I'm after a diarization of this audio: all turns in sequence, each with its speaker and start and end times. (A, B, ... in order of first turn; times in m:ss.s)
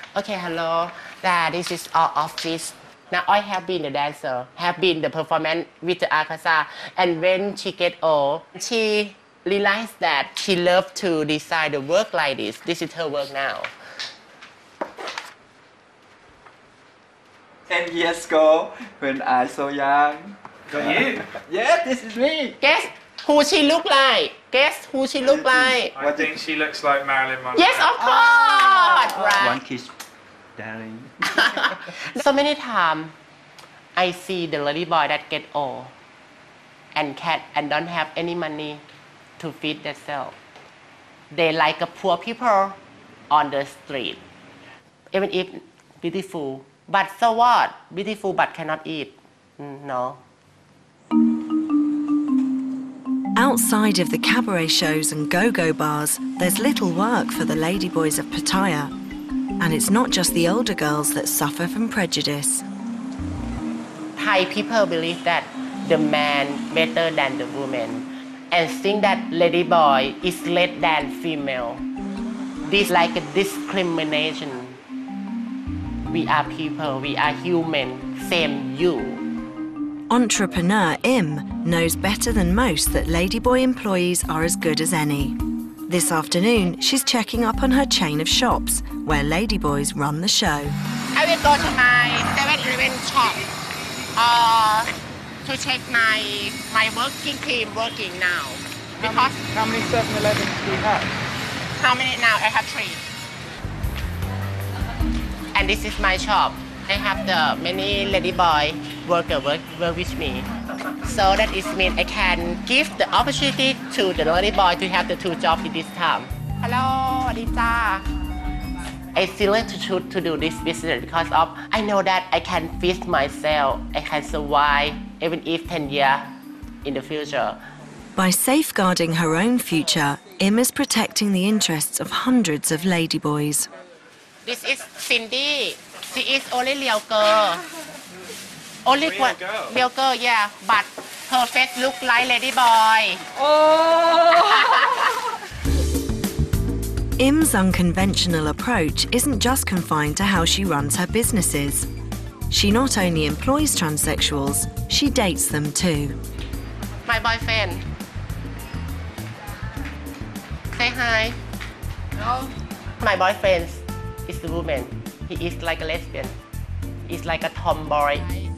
0:00.2-0:13.7 A
0:17.7-0:22.6 B
0:20.7-0:21.2 C
0:22.6-0:25.9 A
0:25.4-0:26.4 B
0:26.0-0:27.9 C
0:27.6-0:29.6 A
0:29.4-0:29.9 B
0:30.6-0:31.1 B
0:31.6-0:33.1 A
0:34.0-0:35.9 A
0:36.9-0:38.8 A
0:39.4-0:40.4 A
0:41.3-0:42.8 A
0:43.3-0:44.2 A
0:45.1-0:50.2 A
0:53.4-0:58.9 D
0:59.6-1:02.6 D
1:04.2-1:11.8 A
1:12.6-1:14.8 A
1:16.1-1:19.2 A
1:20.1-1:30.8 D
1:31.2-1:33.5 A
1:34.2-1:34.9 A
1:35.4-1:39.4 A
1:39.0-1:41.1 E
1:41.8-1:43.0 A
1:45.5-1:50.5 A
1:51.0-1:58.1 A
1:59.1-2:06.3 A
2:06.8-2:07.6 A
2:08.2-2:13.7 D
2:14.4-2:17.6 A
2:18.8-2:23.2 A
2:24.3-2:24.9 A
2:27.2-2:31.9 D
2:32.5-2:36.2 D
2:37.1-2:37.8 A
2:40.7-2:41.4 A
2:43.0-2:46.4 A
2:47.1-2:48.3 A